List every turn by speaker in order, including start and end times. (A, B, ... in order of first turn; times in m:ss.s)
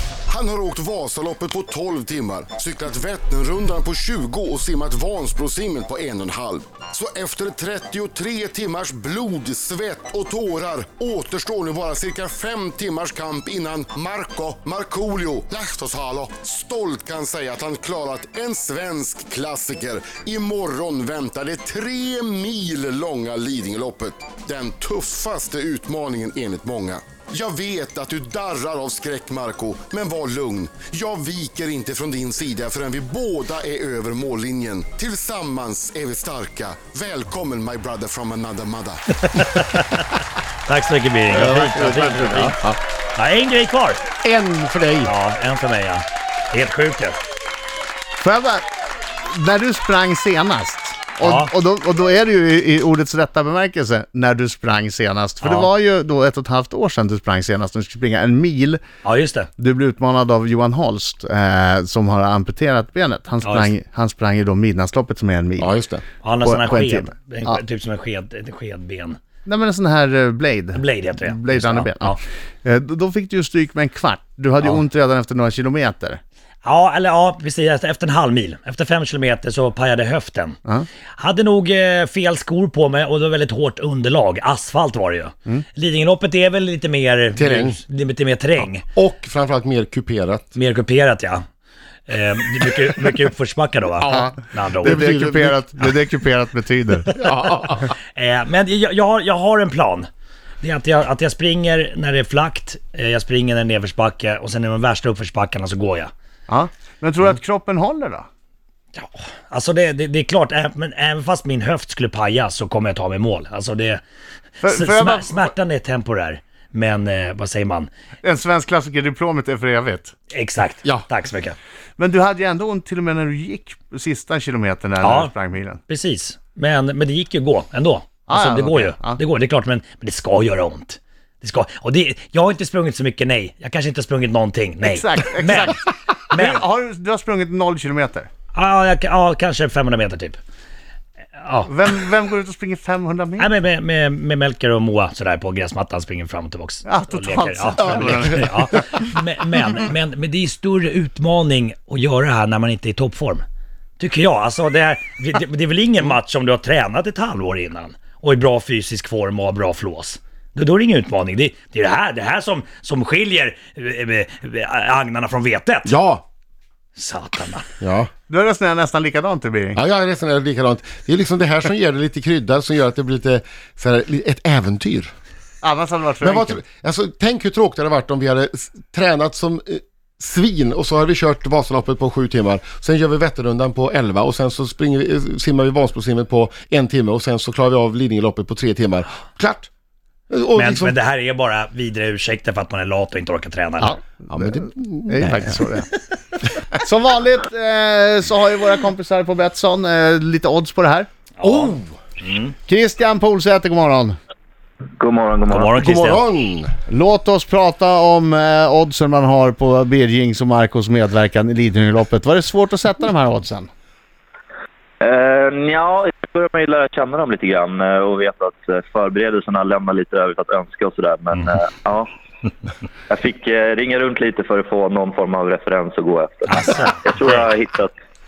0:00.3-0:39.4 A
0:39.3-0:42.6 B
0:41.3-0:42.8 C
0:43.2-0:44.0 B
0:44.2-0:45.1 C
0:45.1-0:47.2 B
0:48.2-0:48.7 D
0:49.2-0:58.8 D
0:51.2-0:51.5 B
0:55.4-0:55.7 B
0:59.0-0:59.5 B
0:59.6-1:05.7 D
1:03.4-1:03.7 B
1:05.6-1:06.0 C
1:06.2-1:09.2 B
1:06.4-1:07.6 D
1:09.4-1:16.2 D
1:10.7-1:12.2 B
1:16.6-1:20.6 B
1:21.2-1:28.8 B
1:27.4-1:27.8 C
1:28.9-1:30.5 C
1:30.6-1:31.4 B
1:32.1-1:35.0 B
1:34.0-1:35.6 C
1:34.1-1:37.2 D
1:37.1-1:37.9 C
1:38.1-1:40.1 B
1:40.6-1:46.1 B
1:46.5-1:48.3 D
1:48.9-1:54.0 B
1:54.6-1:55.5 D
1:54.6-1:57.9 B
1:58.2-2:00.1 D
2:00.3-2:01.6 B
2:02.0-2:05.8 D
2:05.0-2:05.3 B
2:05.9-2:15.8 B
2:08.3-2:09.2 D
2:14.8-2:18.3 D
2:16.3-2:16.6 B
2:18.5-2:20.4 B
2:21.4-2:21.7 B
2:21.6-2:23.5 D
2:23.4-2:33.4 B
2:26.8-2:28.6 D
2:34.0-2:46.0 B
2:45.8-2:46.2 C
2:47.0-2:47.7 B
2:47.8-2:48.1 C
2:48.3-2:49.8 D
2:49.7-2:55.1 C
2:55.6-2:56.6 D
2:56.2-3:09.7 C
3:10.3-3:10.9 C
3:10.6-3:14.0 B
3:13.8-3:15.9 D
3:14.3-3:15.7 C
3:16.8-3:21.1 D
3:21.4-3:22.5 B
3:21.4-3:21.9 C
3:22.7-3:24.2 D
3:25.0-3:25.8 E
3:25.5-3:26.2 B
3:25.8-3:26.7 C
3:26.9-3:33.7 D
3:35.0-3:42.1 E
3:43.1-3:47.9 E
3:46.5-3:47.4 B